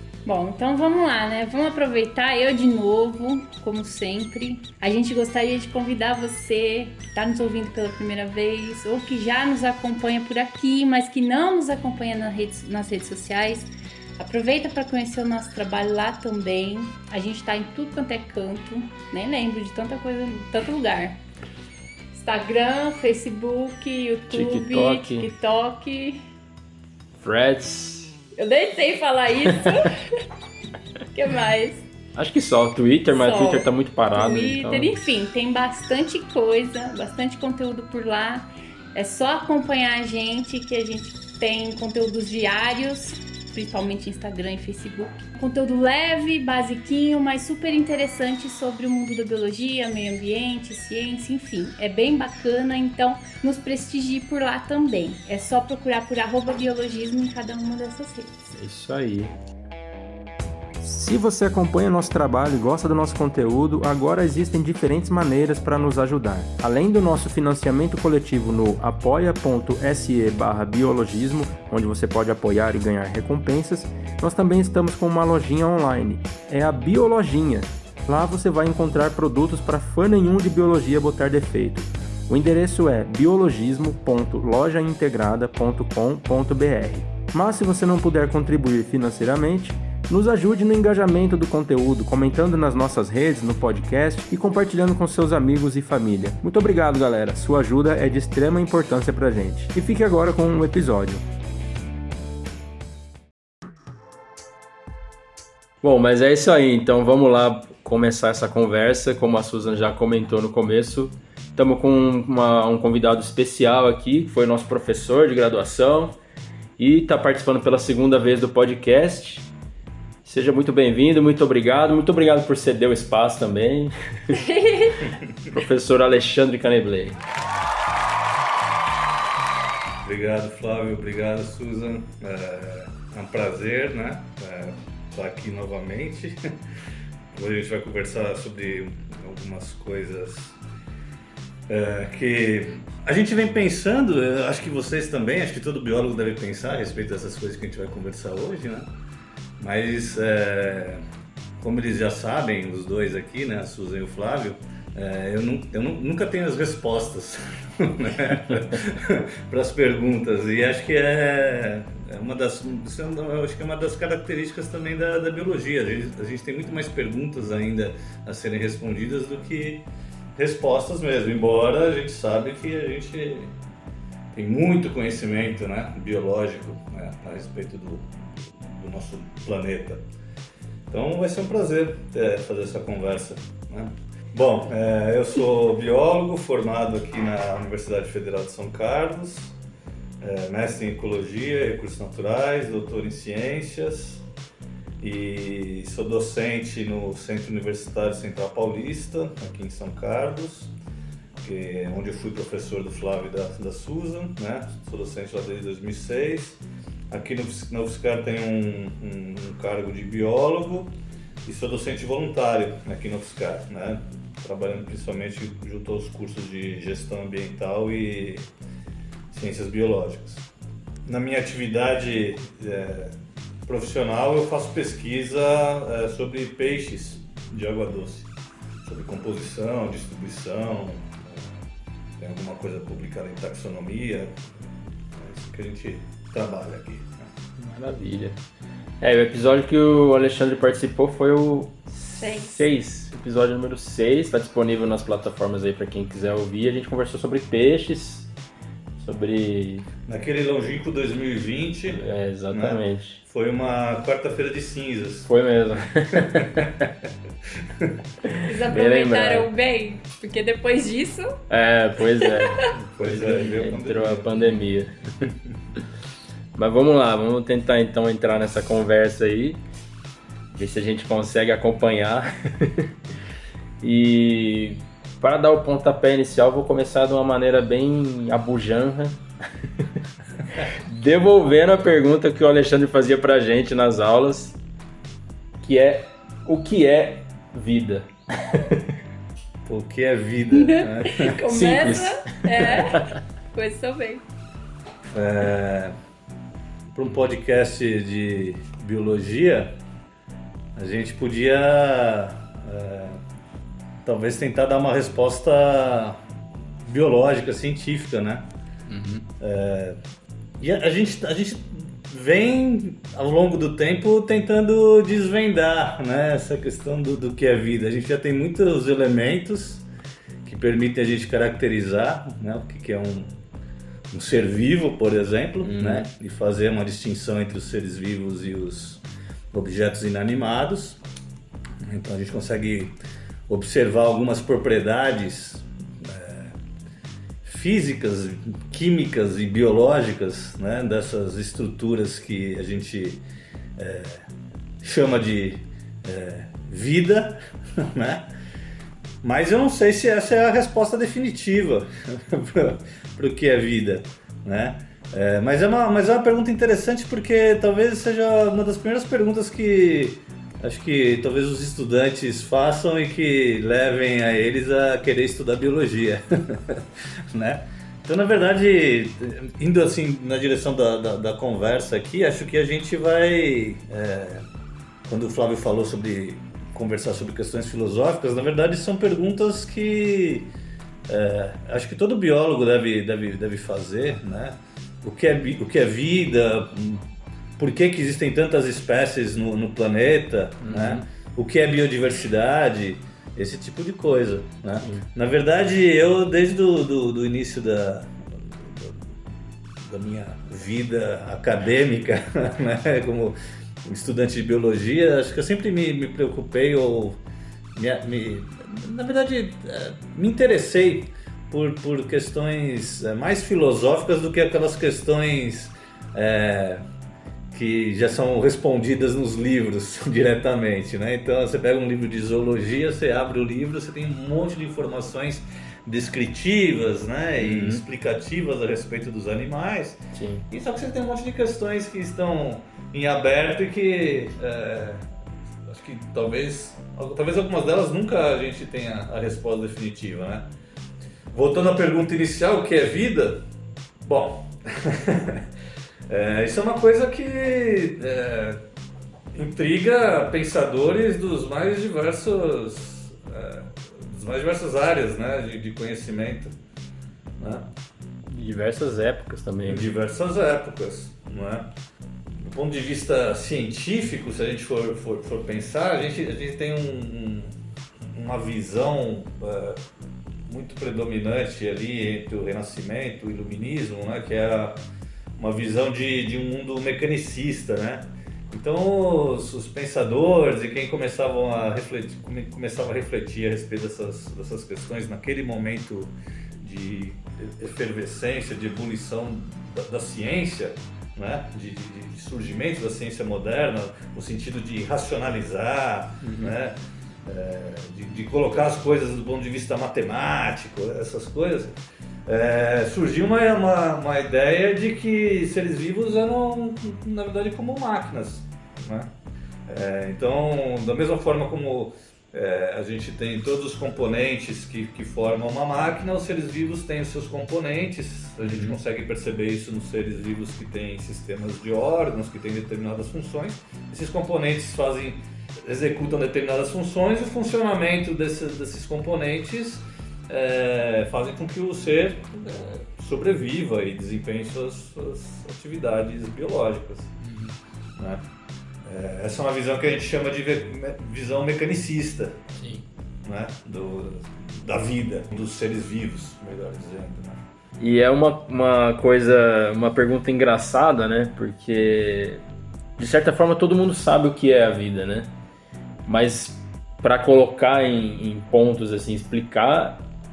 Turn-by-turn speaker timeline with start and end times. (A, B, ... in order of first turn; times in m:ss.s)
0:00.2-0:21.2 A
0:22.1-0:26.2 A
0:24.3-0:25.3 B
0:27.2-0:28.2 B
0:28.4-0:30.2 A
0:31.1-0:31.8 A
0:32.2-0:34.9 B
0:33.1-0:58.5 A
0:58.5-0:59.3 B
1:00.8-1:41.2 B
1:45.8-1:56.2 B
1:56.8-1:59.5 B
2:00.2-2:04.4 B
2:04.3-2:05.0 A
2:05.2-2:05.5 C
2:05.5-2:07.2 B
2:10.0-2:16.5 C
2:17.3-2:20.6 C
2:21.7-2:28.9 C
2:29.6-2:31.1 C
2:31.6-2:49.8 C
2:50.4-2:53.5 C
2:54.3-3:00.0 C
3:00.9-3:09.5 C
3:10.2-3:14.2 C
3:15.0-3:20.7 C
3:21.4-3:30.9 C
3:31.4-3:38.5 C
3:39.3-3:40.5 C
3:41.0-3:43.1 C
3:43.6-3:48.3 C
3:48.8-3:51.6 C
3:52.2-3:57.3 C
3:57.6-3:58.4 B
3:59.0-4:08.3 B
4:02.2-4:02.6 A
4:09.0-4:09.9 B
4:10.1-4:15.3 C
4:11.9-4:13.2 B
4:15.3-4:16.9 B
4:16.1-4:18.0 C
4:18.2-4:19.5 B
4:18.4-4:21.4 A
4:21.5-4:25.8 B
4:22.2-4:22.6 A
4:22.7-4:24.5 C
4:26.6-4:29.6 B
4:30.5-4:32.9 B
4:33.8-4:39.2 B
4:39.7-4:40.0 B
4:40.6-4:44.6 B
4:45.6-4:48.9 B
4:49.6-4:51.3 C
4:50.5-4:54.2 A
4:51.2-4:53.2 B
4:55.1-4:55.9 C
4:56.9-4:59.8 C
5:00.8-5:03.2 C
5:04.0-5:06.2 C
5:06.8-5:08.5 C
5:08.9-5:09.3 B
5:09.4-5:10.0 C
5:10.6-5:19.8 C
5:20.4-5:23.3 C
5:24.1-5:31.0 C
5:25.6-5:26.1 B
5:31.8-5:32.9 C
5:33.5-5:36.6 C
5:37.4-5:43.2 C
5:43.8-5:44.2 C
5:44.8-5:48.3 C
5:49.2-6:14.4 C
6:15.0-6:20.5 C
6:21.1-6:27.0 C
6:27.6-6:39.0 C
6:30.6-6:31.0 B
6:34.8-6:35.1 B
6:39.8-6:47.2 C
6:47.8-6:56.8 C
6:57.5-7:15.1 C
7:07.4-7:07.8 B
7:10.1-7:10.4 B
7:15.6-7:20.4 C
7:21.3-7:23.4 C
7:24.0-7:25.5 C
7:26.1-7:28.6 C
7:29.3-7:36.5 C
7:37.4-7:37.7 C
7:38.3-7:39.9 B
7:39.6-7:41.7 C
7:42.3-7:49.8 C
7:50.5-7:54.8 C
7:55.4-8:29.1 C
8:16.2-8:16.5 B
8:29.7-8:57.2 C
8:38.4-8:38.8 B
8:57.2-8:57.6 B
8:58.0-8:58.2 C
8:58.8-9:02.4 C
9:02.5-9:02.8 B
9:03.2-9:07.4 C
9:07.8-9:12.4 B
9:13.0-9:15.3 B
9:16.0-9:20.0 B